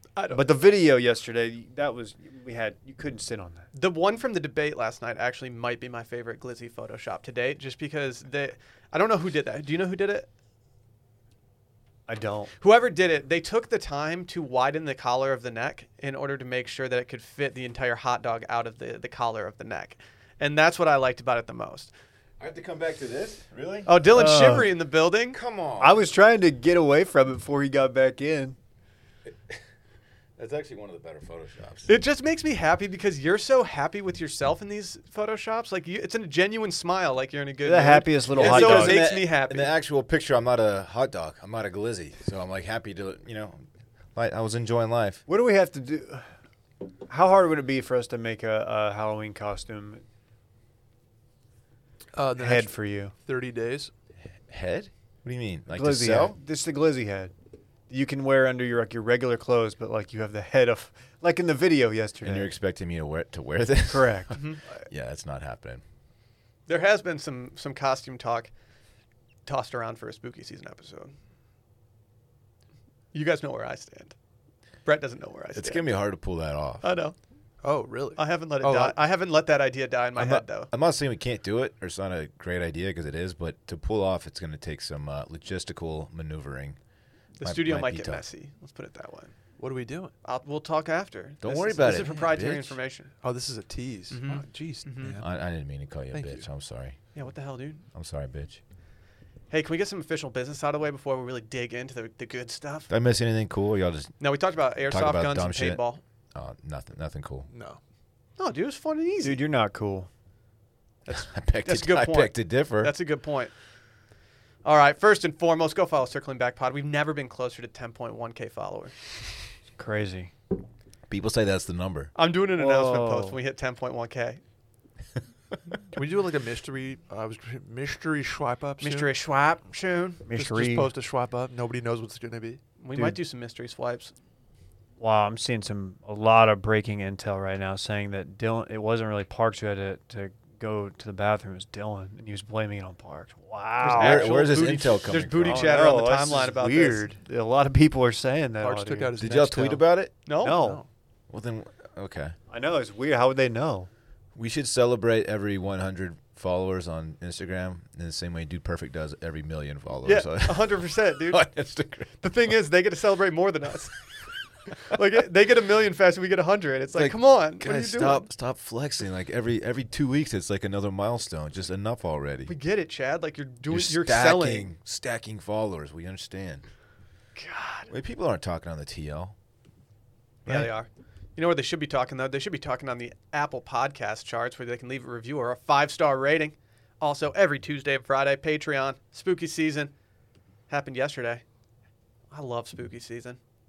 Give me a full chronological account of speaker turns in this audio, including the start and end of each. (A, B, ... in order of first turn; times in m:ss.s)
0:00.2-0:00.5 A
0:00.3-0:03.7 B
0:03.7-0:10.3 A
0:12.1-0:12.5 B
0:12.6-0:21.9 A
0:22.4-0:23.9 C
0:23.9-0:25.4 A
0:24.1-0:24.7 B
0:25.3-0:26.1 C
0:25.8-0:28.6 B
0:29.3-0:29.6 C
0:30.4-0:32.0 C
0:31.9-0:39.7 A
0:37.6-0:39.0 B
0:38.3-0:45.2 C
0:45.3-0:46.2 B
0:47.1-0:50.0 B
0:52.1-0:53.9 D
0:52.4-0:53.2 B
0:54.5-0:56.4 C
0:55.7-0:57.3 B
0:57.9-1:02.5 B
1:02.2-1:05.8 C
1:03.9-1:04.4 B
1:04.3-1:04.6 A
1:06.7-1:08.5 A
1:09.5-1:11.2 A
1:13.1-1:14.1 A
1:14.8-1:15.9 A
1:15.6-1:16.9 C
1:16.8-1:17.2 A
1:17.6-1:19.0 D
1:18.2-1:20.7 A
1:20.2-1:26.8 C
1:27.4-1:29.4 A
1:27.4-1:28.2 C
1:29.6-1:30.1 D
1:30.2-1:33.1 A
1:31.4-1:32.8 C
1:33.2-1:35.3 D
1:34.1-1:35.2 A
1:35.2-1:37.0 C
1:36.1-1:36.5 D
1:37.1-1:37.8 A
1:37.9-1:38.6 C
1:39.5-1:42.9 A
1:42.9-1:44.2 C
1:44.2-1:46.0 A
1:44.9-1:45.8 C
1:46.3-1:47.5 C
1:47.5-1:47.8 D
1:48.4-1:49.4 A
1:49.2-1:50.1 B
1:51.1-1:53.5 A
1:51.1-1:53.0 C
1:54.6-1:59.0 A
1:59.8-2:00.3 B
2:01.1-2:02.1 C
2:02.2-2:04.4 A
2:02.6-2:03.4 B
2:05.9-2:09.1 D
2:08.8-2:10.2 A
2:10.3-2:10.9 B
2:10.3-2:12.6 D
2:12.8-2:14.1 A
2:15.0-2:24.4 B
2:23.8-2:27.1 A
2:24.0-2:25.8 C
2:25.5-2:29.3 B
2:28.6-2:29.8 D
2:29.2-2:30.1 C
2:30.2-2:30.6 A
2:30.4-2:30.8 B
2:30.5-2:30.9 D
2:31.3-2:32.4 C
2:32.5-2:33.9 B
2:34.4-2:42.2 C
2:40.0-2:41.5 A
2:42.2-2:44.0 A
2:44.8-2:48.3 A
2:46.9-2:52.6 C
2:52.5-2:54.7 A
2:53.7-2:56.7 C
2:57.4-2:57.9 A
2:57.9-2:59.4 C
3:00.5-3:09.9 A
3:10.7-3:11.4 A
3:12.3-3:13.4 A